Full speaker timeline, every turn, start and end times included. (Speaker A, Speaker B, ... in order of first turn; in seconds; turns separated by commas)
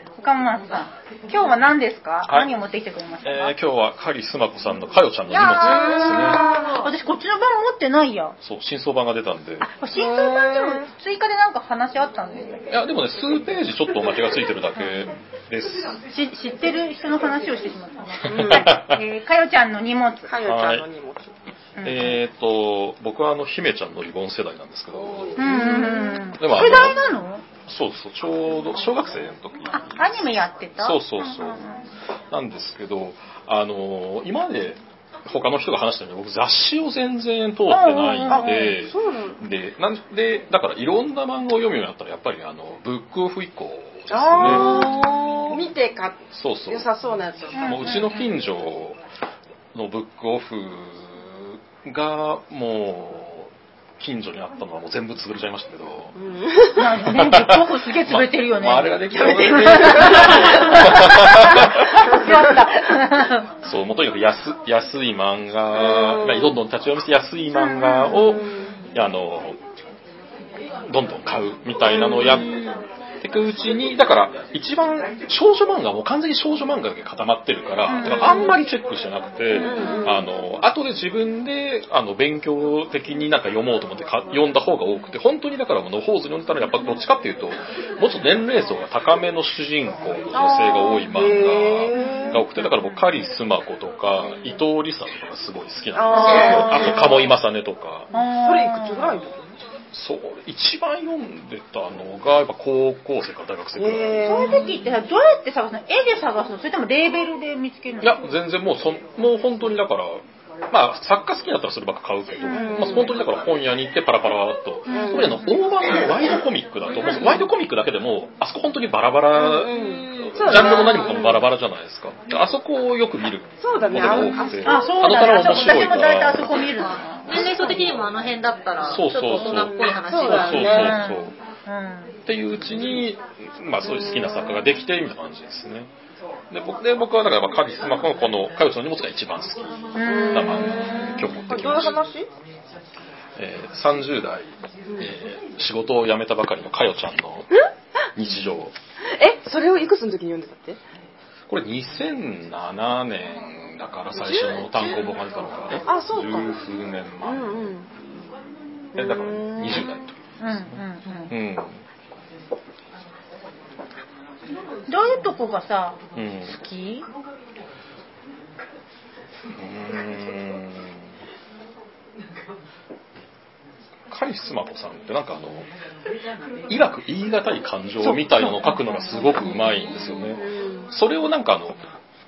Speaker A: 0.2-3.5, Speaker B: 2.3-2.5, Speaker B: 3.2-6.5, Speaker A: 5.3-8.4, Speaker C: 5.6-6.7, Speaker B: 8.4-9.7, Speaker A: 9.6-12.8, Speaker C: 9.9-10.9, Speaker B: 12.7-16.0, Speaker A: 14.8-15.1, Speaker A: 16.1-20.3, Speaker C: 18.3-18.8, Speaker B: 18.3-19.0, Speaker C: 20.3-21.3, Speaker B: 20.4-20.9, Speaker A: 21.8-22.2, Speaker B: 21.8-27.0, Speaker C: 25.3-26.2, Speaker A: 25.4-27.4, Speaker B: 27.6-30.1, Speaker A: 29.7-31.7, Speaker B: 30.8-31.7, Speaker B: 32.3-44.9, Speaker A: 37.7-38.8, Speaker C: 38.3-39.4, Speaker C: 44.1-48.1, Speaker A: 44.5-45.4, Speaker B: 46.3-46.9, Speaker A: 47.5-48.2, Speaker B: 47.5-49.0, Speaker B: 49.7-56.1, Speaker C: 56.1-57.0, Speaker A: 56.8-63.5, Speaker B: 57.1-62.5, Speaker B: 63.6-69.6, Speaker C: 65.8-66.6, Speaker A: 67.5-68.4, Speaker C: 68.2-68.8, Speaker B: 70.9-98.1, Speaker C: 71.8-72.5, Speaker A: 77.9-78.6, Speaker C: 79.5-80.3, Speaker A: 79.7-80.1, Speaker C: 90.3-92.5, Speaker A: 92.0-92.4, Speaker C: 96.0-97.3, Speaker A: 98.1-99.1, Speaker C: 98.2-99.4, Speaker B: 99.9-104.5, Speaker C: 103.8-104.7, Speaker A: 104.2-108.3, Speaker B: 108.0-128.0, Speaker C: 112.5-113.2, Speaker C: 114.9-115.5, Speaker A: 114.9-115.6, Speaker C: 117.0-117.5, Speaker C: 119.3-121.5, Speaker D: 119.7-121.2, Speaker C: 123.6-125.0, Speaker A: 124.6-127.8, Speaker D: 127.3-130.9, Speaker B: 128.8-131.3, Speaker C: 129.3-131.0, Speaker A: 130.6-132.2, Speaker B: 132.3-135.9, Speaker C: 133.9-134.4, Speaker B: 136.5-142.0, Speaker A: 140.0-141.2, Speaker C: 140.1-142.3, Speaker B: 143.4-148.7, Speaker C: 149.1-150.8, Speaker B: 151.5-157.6, Speaker C: 154.2-155.1, Speaker C: 155.8-156.6, Speaker C: 157.2-157.9, Speaker C: 158.9-160.1, Speaker B: 158.9-160.1, Speaker A: 160.4-161.3, Speaker B: 161.3-161.8, Speaker A: 164.9-167.1, Speaker B: 166.1-166.6, Speaker B: 169.6-171.0, Speaker B: 174.1-175.7, Speaker B: 176.7-181.8, Speaker A: 178.0-179.0, Speaker C: 180.3-180.9